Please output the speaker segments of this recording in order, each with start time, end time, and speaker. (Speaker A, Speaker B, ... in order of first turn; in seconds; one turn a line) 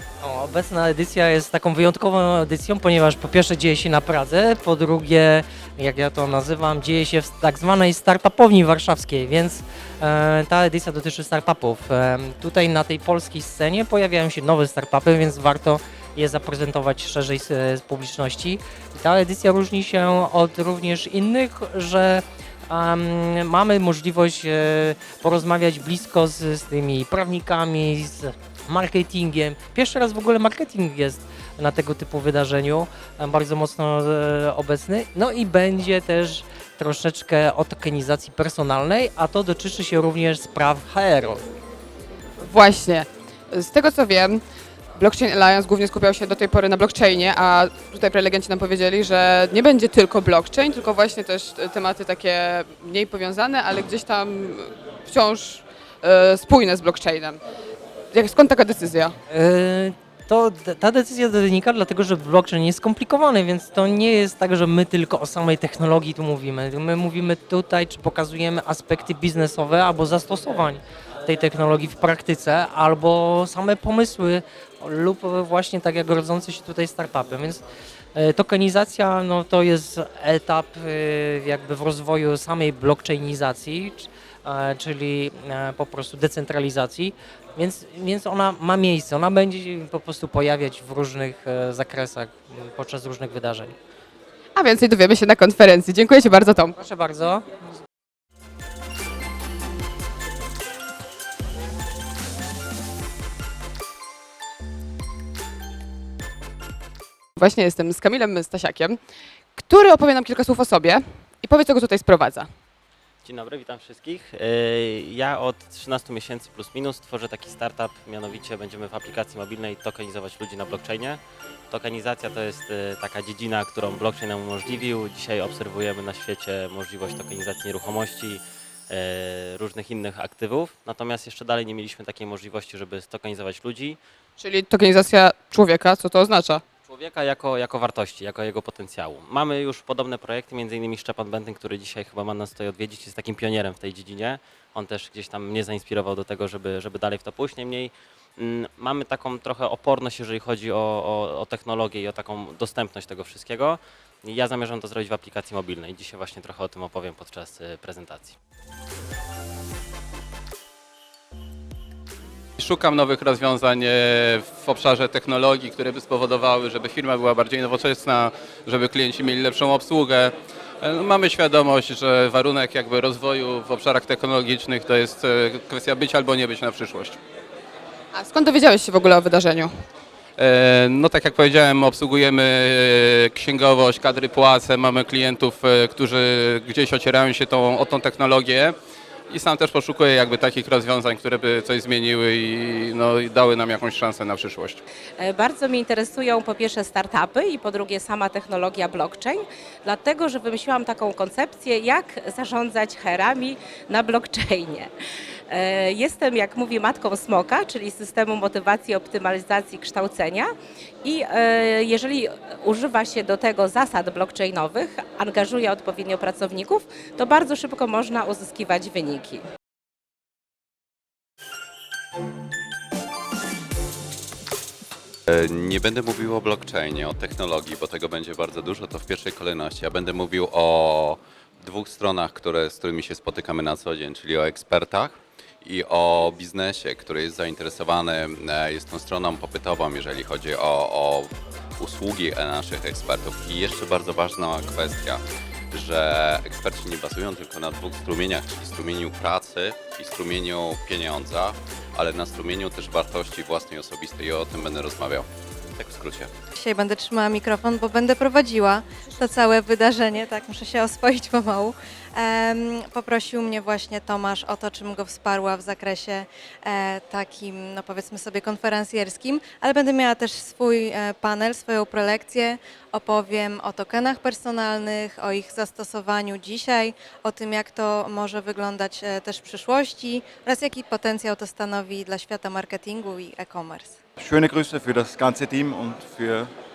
Speaker A: 0.2-41.4
Speaker B: 42.4-44.4
Speaker B: 44.9-57.4
Speaker B: 58.1-59.2
Speaker A: 59.3-77.6
Speaker A: 78.1-93.8
Speaker B: 94.5-96.8
Speaker A: 96.8-97.4
Speaker B: 107.3-109.0
Speaker B: 109.5-112.5
Speaker C: 113.2-134.0
Speaker B: 134.4-136.6
Speaker C: 136.8-158.4
Speaker D: 162.6-177.2
Speaker B: 178.1-179.8
Speaker D: 180.4-188.8
Speaker D: 189.3-194.8
Speaker E: 195.2-204.9
Speaker E: 205.5-210.5
Speaker E: 211.0-219.4
Speaker F: 225.3-256.3
Speaker G: 256.6-284.0
Speaker H: 284.2-286.5